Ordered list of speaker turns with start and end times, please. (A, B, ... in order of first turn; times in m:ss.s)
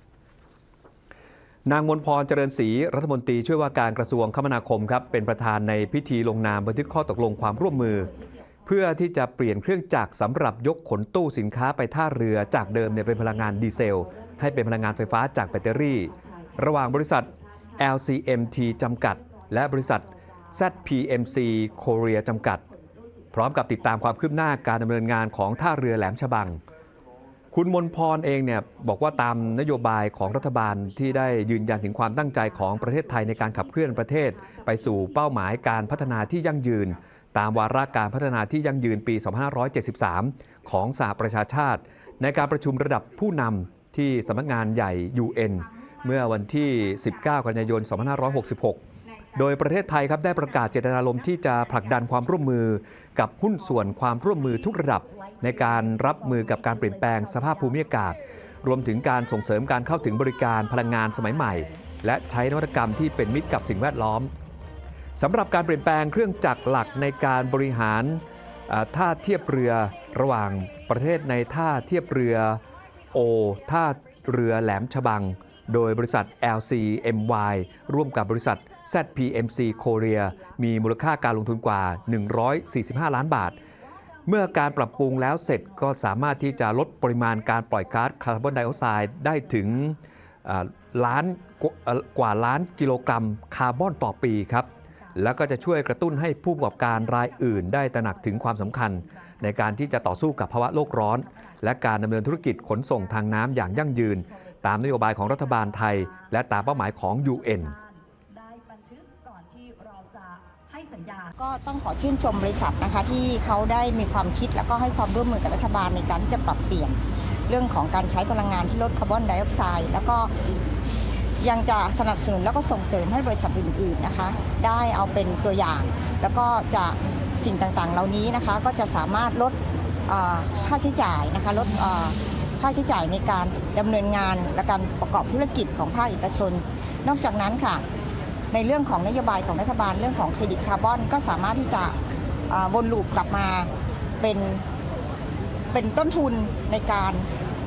0:01.7-0:08.1 A
0:05.4-0:08.3 B
0:08.7-0:22.6 A
0:12.4-0:24.8 B
0:23.3-0:26.6 A
0:27.5-0:48.8 A
0:30.0-0:36.8 B
0:45.7-0:48.4 B
0:49.4-1:04.3 A
0:50.2-0:51.9 B
0:54.2-0:58.2 B
1:00.7-1:01.8 B
1:05.2-1:12.6 A
1:06.5-1:07.9 B
1:09.0-1:11.9 B
1:12.6-1:22.5 B
1:13.1-1:23.6 A
1:23.1-1:29.6 B
1:24.3-1:47.8 A
1:35.0-1:51.3 B
1:51.4-2:00.3 C
2:01.4-2:17.8 C
2:18.5-2:22.0 C
2:22.5-2:23.7 C
2:24.2-2:24.6 C
2:25.7-2:27.3 C